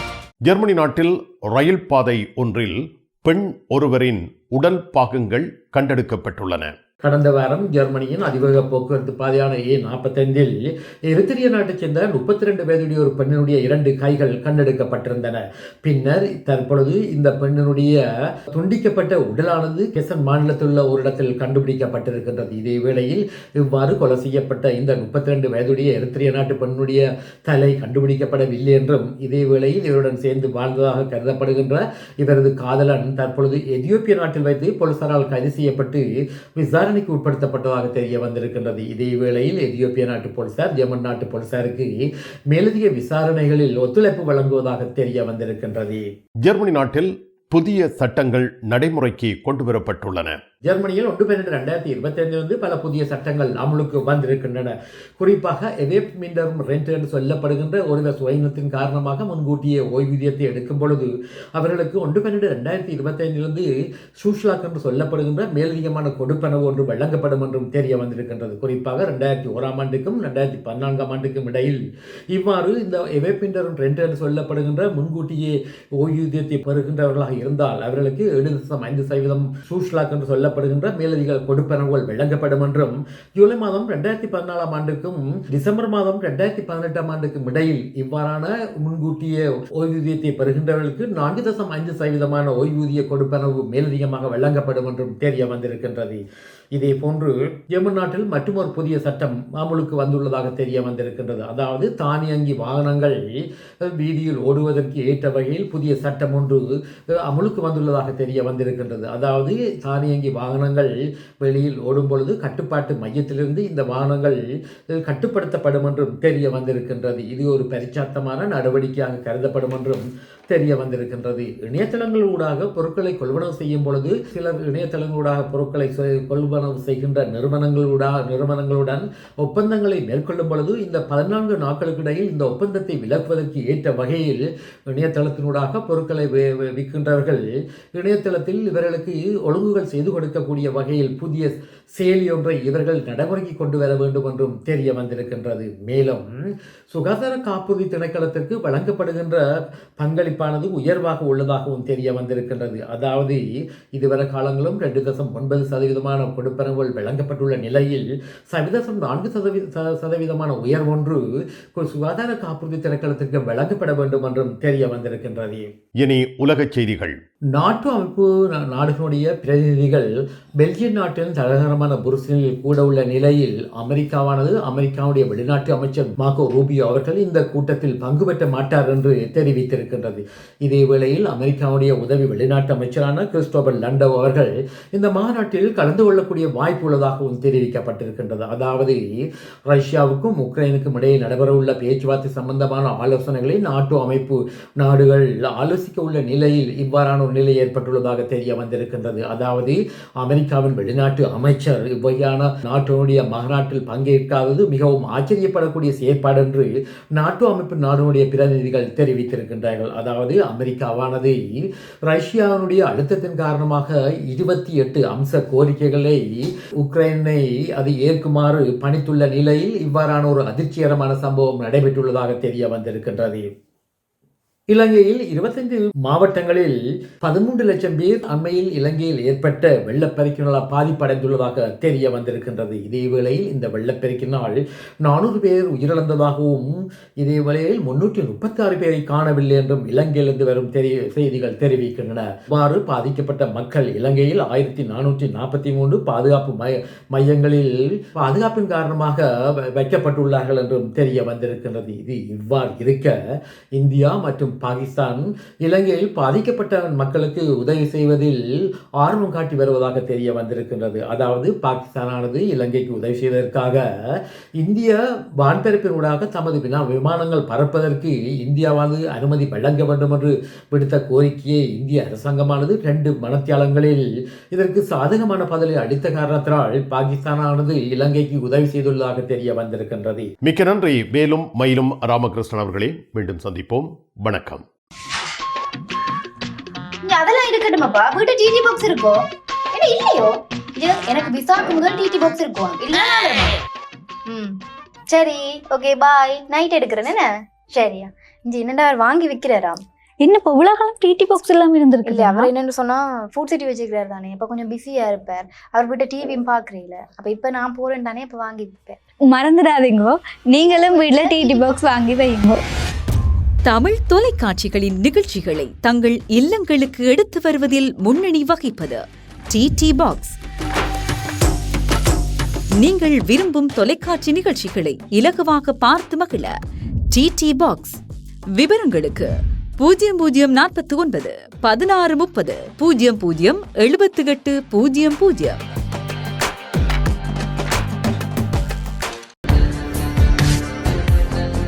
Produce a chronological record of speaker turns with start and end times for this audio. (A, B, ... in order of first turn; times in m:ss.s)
0:00.4-0:06.7 A
0:07.0-0:46.1 B
0:46.4-0:50.3 A
0:50.6-1:36.2 B
1:36.7-2:45.7 B
2:46.0-2:47.2 A
2:47.5-3:43.5 B
3:44.7-4:40.3 B
4:40.4-4:44.6 A
4:47.0-4:49.2 C
4:49.7-4:53.6 C
4:54.3-4:54.5 C
4:55.1-4:59.8 C
5:00.2-5:02.5 D
5:02.0-5:09.0 C
5:09.2-5:12.6 D
5:10.6-5:11.8 C
5:13.6-5:20.4 E
5:22.8-5:26.5 E
5:27.1-5:28.0 E
5:28.6-5:35.6 E